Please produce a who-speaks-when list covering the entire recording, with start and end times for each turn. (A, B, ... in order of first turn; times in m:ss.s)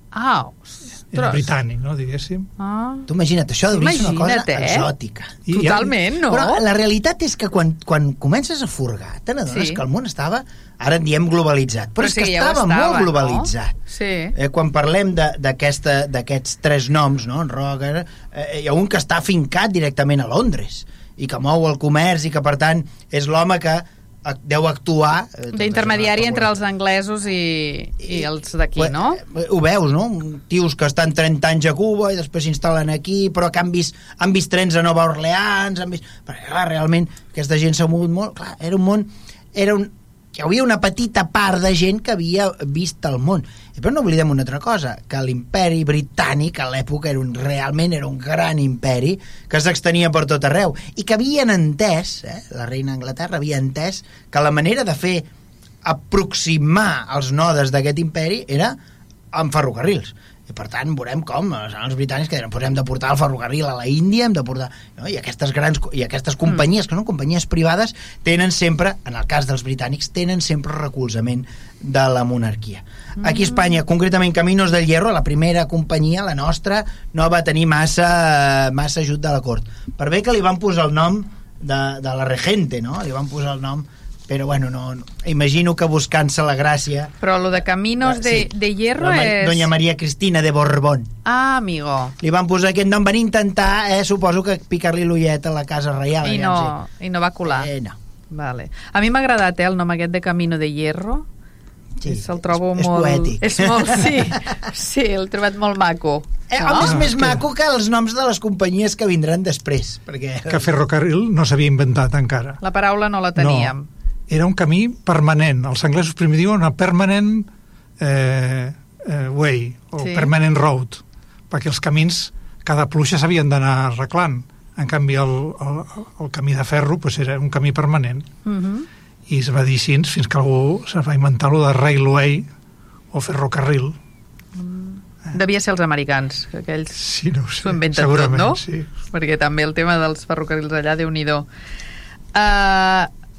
0:00.1-0:01.5 A
0:01.1-0:02.5 B
0:02.6-0:03.1 A
0:03.1-0:13.8 C
0:03.7-0:04.9 A
0:05.5-0:05.9 B
0:05.5-0:06.6 A
0:09.5-0:09.8 A
0:12.0-0:14.4 A
0:14.4-0:26.6 C
0:25.5-0:29.2 A
0:28.0-0:55.3 C
0:55.8-0:58.8 C
0:59.3-1:27.1 C
1:13.2-1:13.6 A
1:27.2-1:29.7 A
1:28.0-1:31.1 C
1:31.3-1:32.2 A
1:32.2-1:36.7 C
1:36.2-1:37.7 A
1:37.4-1:38.0 C
1:38.3-1:41.3 A
1:42.0-1:44.5 C
1:42.1-1:47.0 A
1:46.5-1:50.7 C
1:46.8-1:47.4 B
1:50.5-1:52.6 B
1:52.6-1:53.9 A
1:53.4-1:53.7 B
1:54.3-1:57.5 B
1:58.0-2:08.3 B
2:00.0-2:00.3 A
2:08.5-2:08.9 A
2:09.3-2:12.5 B
2:13.1-2:14.0 B
2:14.6-2:17.0 A
2:17.0-2:18.9 B
2:17.6-2:21.5 A
2:22.3-2:23.1 A